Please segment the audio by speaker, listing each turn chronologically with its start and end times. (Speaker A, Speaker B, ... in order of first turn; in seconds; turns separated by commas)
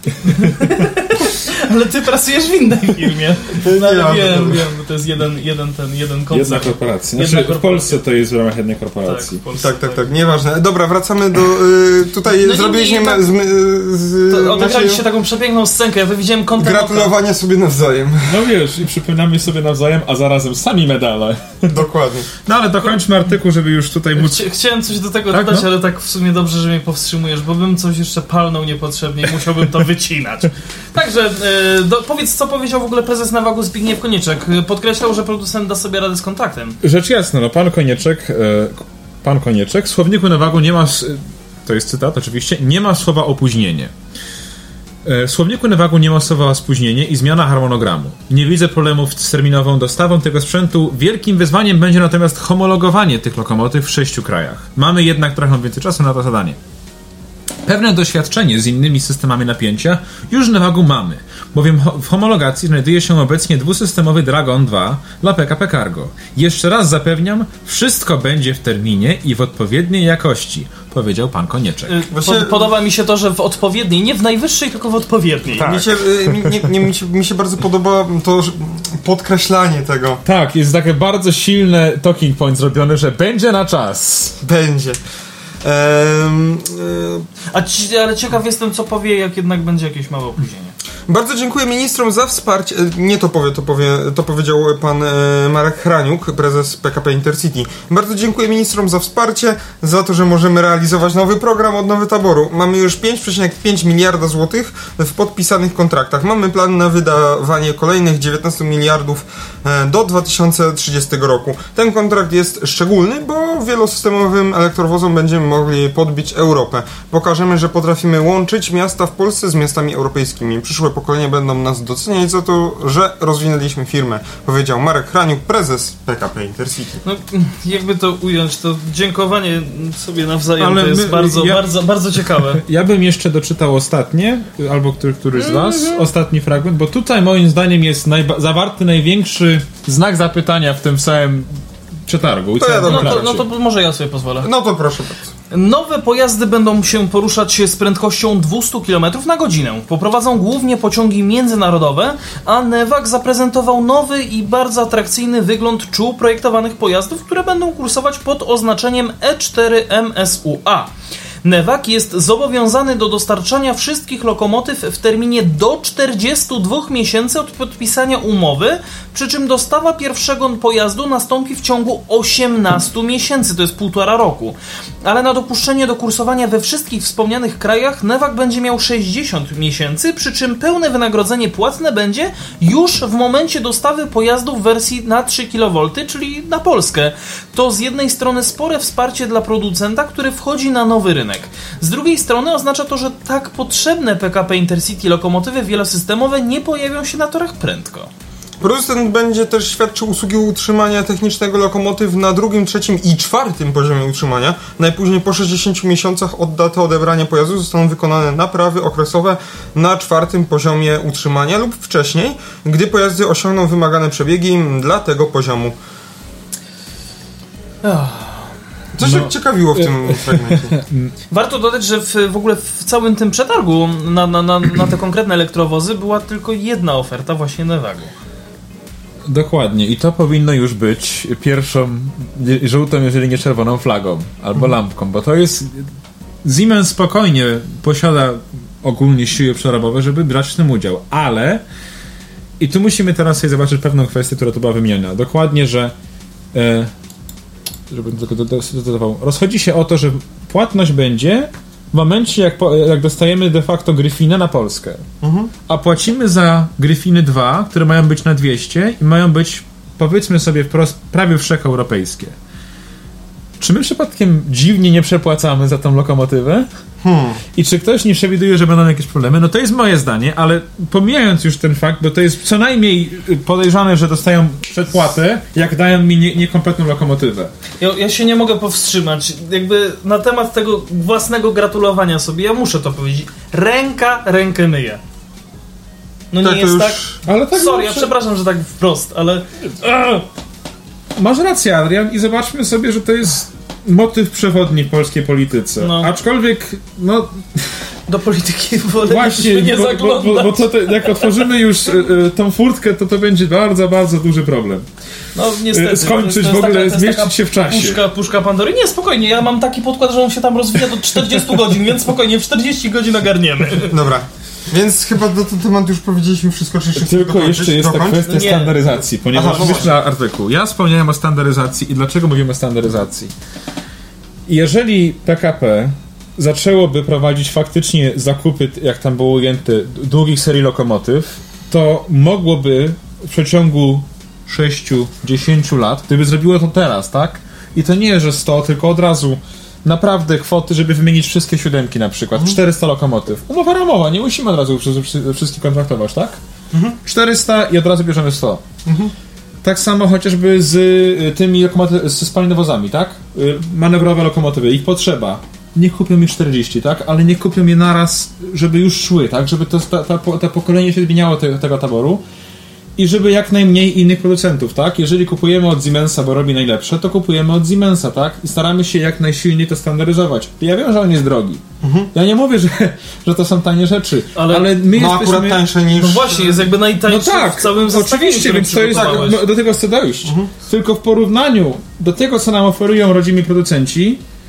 Speaker A: 0.2-8.0, Speaker B: 3.6-4.7, Speaker C: 6.3-9.4, Speaker A: 9.1-10.1, Speaker B: 9.6-15.0, Speaker A: 12.3-13.3, Speaker A: 14.3-17.1, Speaker B: 16.6-18.3, Speaker C: 18.2-21.8, Speaker B: 21.7-22.3, Speaker C: 22.4-24.4, Speaker A: 24.2-36.8, Speaker C: 25.3-25.7, Speaker C: 36.8-43.9, Speaker C: 45.0-56.6, Speaker C: 57.6-72.0, Speaker A: 71.9-75.9, Speaker B: 72.1-72.7, Speaker B: 75.5-80.2, Speaker C: 80.2-84.4, Speaker B: 84.4-85.0, Speaker B: 85.6-87.3, Speaker A: 87.5-90.8, Speaker B: 91.1-127.0, Speaker A: 127.0-132.6, Speaker C: 130.6-131.6, Speaker C: 132.3-143.4, Speaker A: 135.3-136.0, Speaker B: 142.6-143.4, Speaker A: 142.8-144.5, Speaker B: 144.4-145.3, Speaker A: 145.5-160.9, Speaker A: 161.4-198.1, Speaker B: 198.6-215.8, Speaker A: 217.8-218.5, Speaker B: 218.9-220.8, Speaker C: 219.0-221.1, Speaker A: 221.3-228.1, Speaker C: 229.3-235.9, Speaker C: 236.4-241.6, Speaker C: 242.6-245.9, Speaker C: 246.5-246.9, Speaker C: 247.9-255.1, Speaker B: 255.2-255.5, Speaker C: 255.7-262.4, Speaker C: 263.6-266.7, Speaker B: 267.0-267.4, Speaker C: 267.6-277.5, Speaker A: 277.8-285.0, Speaker A: 286.3-289.5, Speaker B: 286.4-287.1, Speaker C: 287.3-288.1, Speaker C: 289.8-290.2, Speaker C: 291.2-297.9, Speaker A: 295.8-296.1, Speaker A: 298.1-301.5, Speaker C: 299.0-304.9, Speaker A: 305.4-314.0, Speaker C: 305.7-308.0, Speaker B: 313.9-318.3, Speaker C: 317.0-323.3, Speaker A: 318.2-318.9, Speaker B: 319.3-319.9, Speaker C: 324.5-346.4, Speaker B: 346.7-347.0, Speaker C: 347.0-348.6, Speaker B: 348.9-349.1, Speaker C: 349.6-362.2, Speaker C: 363.0-375.6, Speaker B: 371.8-372.1, Speaker A: 374.4-374.8, Speaker B: 374.9-376.7, Speaker A: 376.0-379.4, Speaker C: 377.1-384.2, Speaker B: 379.0-379.4, Speaker B: 380.2-380.5